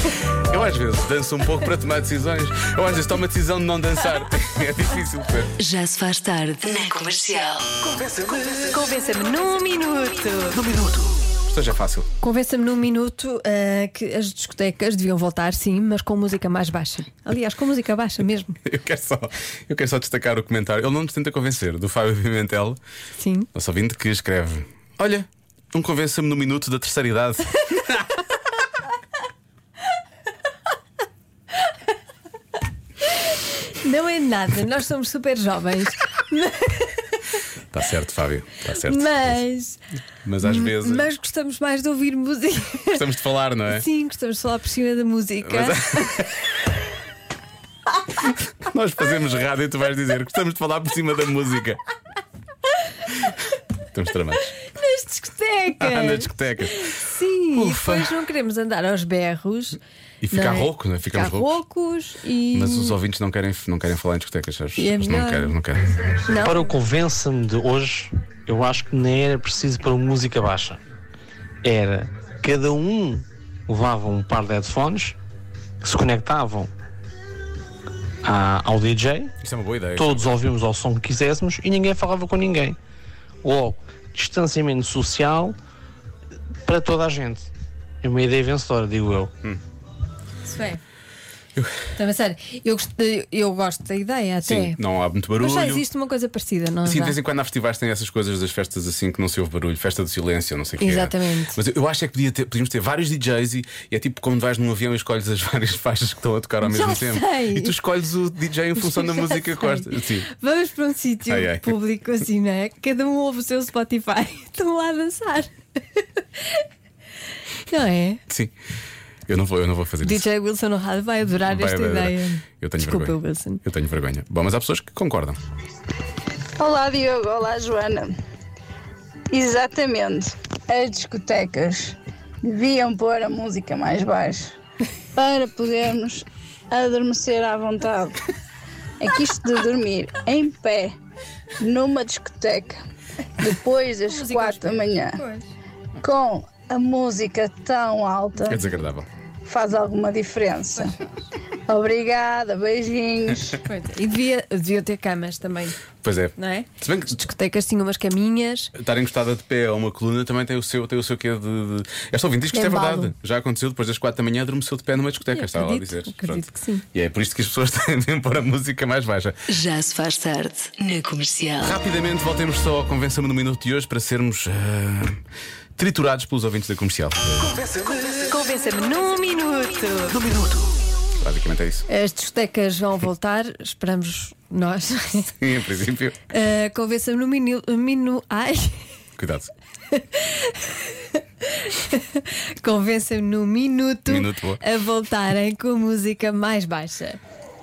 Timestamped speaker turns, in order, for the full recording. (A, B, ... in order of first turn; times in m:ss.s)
0:00.5-0:05.6 A
0:05.6-0:07.7 B
0:08.7-0:10.7 C
0:11.4-0:12.1 A
0:12.2-0:18.6 C
0:18.6-0:22.8 A
0:23.2-0:23.5 C
0:23.5-0:28.2 A
0:33.8-0:37.2 C
0:37.7-0:39.4 A
0:38.8-0:39.8 C
0:40.2-0:41.1 A
0:40.4-0:43.1 C
0:43.0-0:43.9 A
0:43.7-0:46.0 C
0:45.4-0:46.3 A
0:48.3-0:51.8 A
0:53.9-0:54.6 A
0:54.7-0:59.8 C
0:55.8-0:58.2 A
1:00.2-1:01.6 A
1:00.3-1:03.0 C
1:02.5-1:06.2 A
1:04.8-1:05.6 C
1:06.3-1:06.6 C
1:06.4-1:10.8 D
1:11.6-1:15.2 D
1:15.8-1:16.7 D
1:18.2-1:19.3 D
1:19.4-1:20.3 A
1:20.0-1:22.8 D
1:23.4-1:25.6 D
1:26.7-1:27.5 D
1:28.0-1:29.3 D
1:30.5-1:30.8 C
1:31.6-1:31.9 A
1:32.0-1:34.8 C
1:34.4-1:35.9 A
1:35.4-1:37.2 C
1:36.8-1:50.3 A
1:40.8-1:41.6 C
1:46.6-1:47.7 C
1:48.8-1:55.5 C
1:51.3-1:51.8 A
1:57.7-1:58.2 C
1:58.3-1:58.5 A
1:59.3-2:00.3 A
2:00.0-2:03.6 C
2:01.4-2:05.4 A
2:06.6-2:08.1 E
2:09.3-2:14.5 E
2:15.2-2:18.2 E
2:19.0-2:20.9 E
2:21.6-2:22.8 E
2:23.4-2:25.2 E
2:24.1-2:25.5 C
2:26.0-2:28.7 E
2:28.5-2:29.1 A
2:29.4-2:31.0 E
2:31.7-2:33.6 E
2:33.6-2:35.8 C
2:36.0-2:37.2 A
2:36.4-2:38.7 C
2:38.8-2:49.5 A
2:42.5-2:43.1 C
2:45.3-2:46.8 C
2:49.5-2:51.7 B
2:51.6-2:55.2 A
2:55.8-2:57.6 A
2:58.3-3:00.2 C
3:01.2-3:01.9 A
3:01.9-3:05.4 C
3:05.4-3:06.2 A
3:06.3-3:08.8 C
3:09.2-3:09.5 A
3:09.9-3:17.2 C
3:14.1-3:14.6 A